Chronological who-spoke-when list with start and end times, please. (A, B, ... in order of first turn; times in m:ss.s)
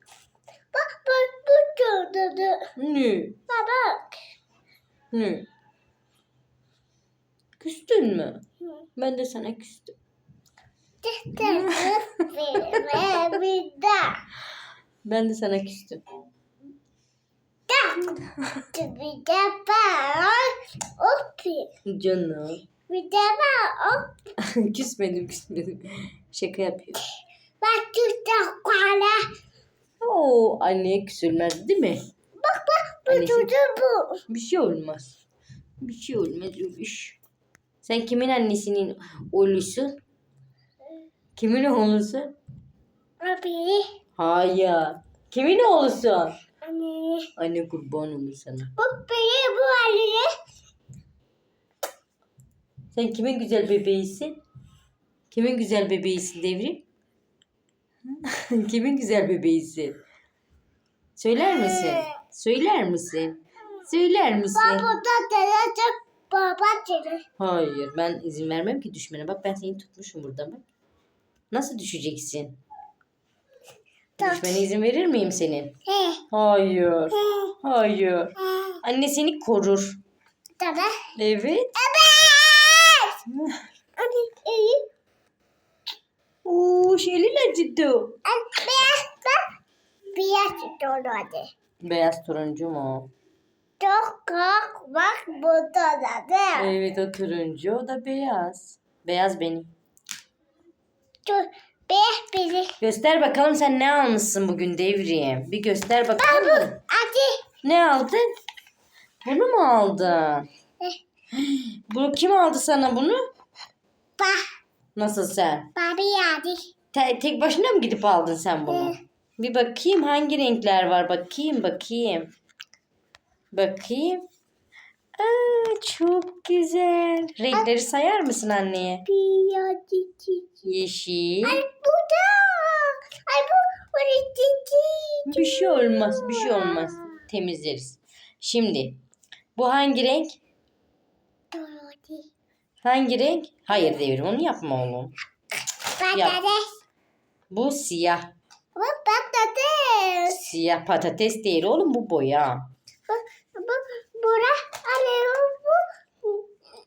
0:00.7-0:02.7 A
0:02.8-0:03.4 B
0:03.5-0:04.2 A
0:05.1-0:05.5 B
0:07.6-0:08.4 B
0:09.0-0:10.0 B
0:11.0-0:14.2 A
0:11.4-0:11.9 B
0:12.6-0:13.2 B
0:15.0-0:16.0 B
0:17.7-0:21.7 A
0:21.9-0:22.6 B
0:22.9-0:24.2 A
0:24.4-0:27.0 B
0:27.6-0:29.2 A
0:30.0-0:32.1 B
0:32.4-0:34.2 A
0:33.1-0:33.5 B
0:34.3-0:35.2 B
0:35.8-0:37.2 B
0:37.8-0:40.0 B
0:41.4-0:42.4 B
0:43.2-0:44.0 A
0:44.2-0:46.4 B
0:46.6-0:47.3 A
0:47.4-0:48.7 B
0:48.8-0:50.3 A
0:52.9-0:54.4 B
0:55.3-0:56.8 B
0:58.3-1:00.0 B
1:01.2-1:04.9 B
1:01.5-1:02.1 A
1:04.6-1:07.2 A
1:07.4-1:10.6 B
1:11.5-1:12.6 B
1:14.2-1:14.6 A
1:14.2-1:15.7 B
1:15.8-1:16.2 A
1:16.3-1:20.0 B
1:17.1-1:17.5 A
1:18.4-1:18.8 A
1:20.6-1:21.1 A
1:21.2-1:21.7 B
1:21.8-1:23.2 A
1:23.3-1:23.6 B
1:24.0-1:24.9 A
1:26.4-1:28.2 B
1:28.2-1:29.4 A
1:30.1-1:31.5 A
1:31.8-1:33.1 B
1:33.8-1:36.7 A
1:36.6-1:39.7 B
1:41.3-1:42.8 A
1:42.8-1:46.8 B
1:46.2-1:47.4 A
1:47.6-1:48.2 B
1:49.2-1:50.5 B
1:51.3-1:53.2 B
1:54.2-1:54.4 A
1:55.0-1:55.7 B
1:55.8-1:56.7 A
1:56.9-2:02.3 B
1:58.7-1:59.0 A
2:03.5-2:04.2 B
2:05.2-2:09.0 B
2:09.1-2:10.7 A
2:10.6-2:11.6 B
2:11.4-2:17.1 A
2:15.3-2:19.0 B
2:19.6-2:20.4 B
2:21.5-2:22.3 A
2:22.8-2:25.2 B
2:25.8-2:26.8 A
2:26.1-2:26.4 B
2:27.5-2:28.3 B
2:28.8-2:30.4 A
2:30.3-2:32.7 B
2:33.1-2:36.5 A